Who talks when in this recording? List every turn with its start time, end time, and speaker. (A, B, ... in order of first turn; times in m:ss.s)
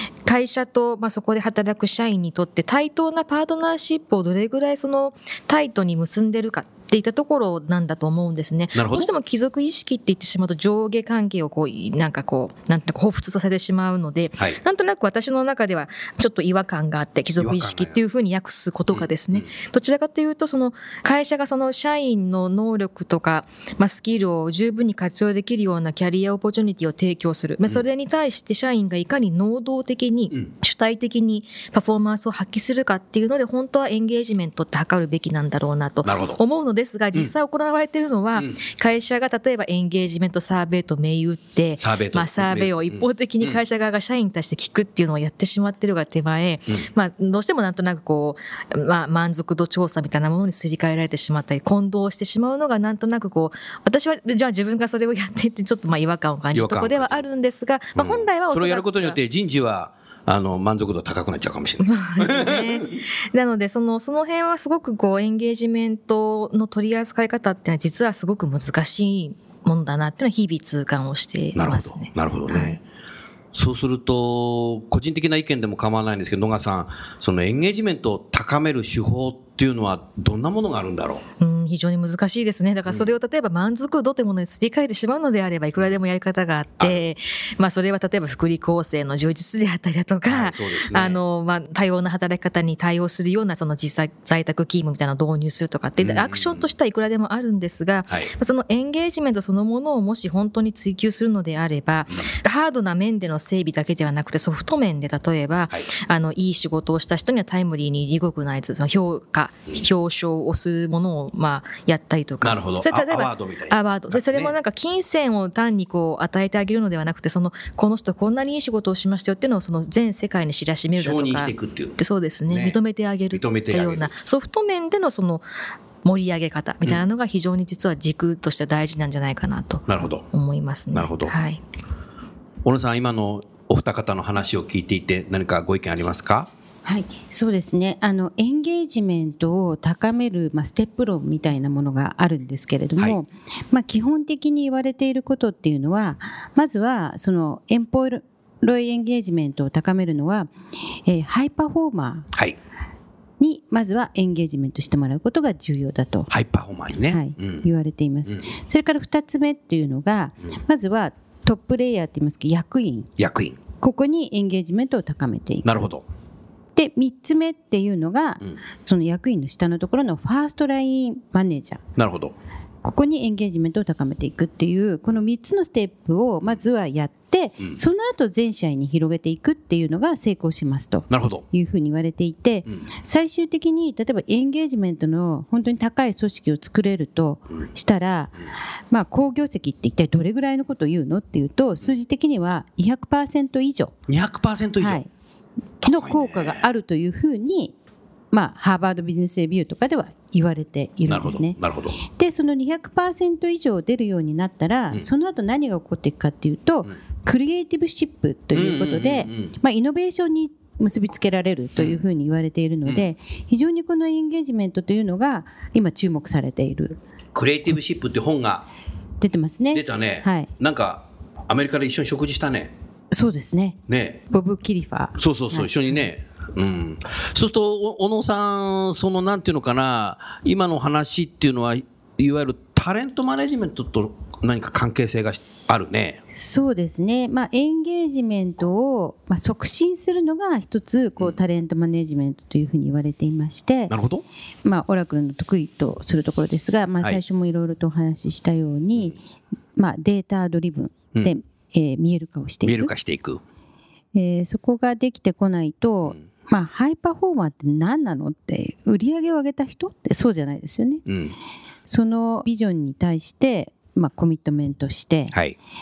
0:00.2-0:59.2 A
0:08.7-0:09.1 B
0:17.4-0:18.0 B
0:18.9-0:19.5 B
0:36.0-0:36.4 B
0:41.8-0:43.6 B
0:56.5-0:57.2 B
0:58.0-1:03.0 B
1:01.8-1:12.8 A
1:11.5-1:12.8 B
1:13.5-1:21.2 B
1:21.4-2:05.4 A
1:30.2-1:31.2 B
1:36.0-1:36.6 B
1:52.4-1:54.5 B
2:01.0-2:02.0 B
2:02.5-2:02.8 B
2:03.3-2:04.1 B
2:06.0-2:11.6 A
2:09.9-2:10.2 B
2:10.9-2:11.3 B
2:12.6-2:16.5 B
2:16.8-2:30.5 C
2:31.0-2:32.3 C
2:33.4-2:36.3 C
2:36.3-2:37.6 B
2:37.1-2:43.1 C
2:43.2-2:43.6 B
2:43.8-2:45.9 C
2:45.6-2:46.0 B
2:46.8-2:51.8 C
2:52.0-2:52.3 B
2:52.8-3:13.9 C
3:01.1-3:01.4 B
3:14.1-3:15.0 B
3:14.8-3:15.1 C
3:15.8-3:16.6 B
3:15.8-3:17.7 C
3:18.3-3:37.0 C
3:21.1-3:22.0 B
3:28.5-3:29.5 B
3:37.3-3:38.6 B
3:39.2-3:40.5 C
3:39.7-3:42.7 B
3:43.1-3:46.0 C
3:43.9-3:44.2 B
3:45.2-3:56.2 B
3:56.3-4:03.9 C
4:03.9-4:04.2 B
4:04.6-4:09.2 C
4:09.8-4:12.9 C
4:12.6-4:13.4 B
4:14.1-4:21.0 C
4:21.1-4:21.3 B
4:21.9-4:25.3 C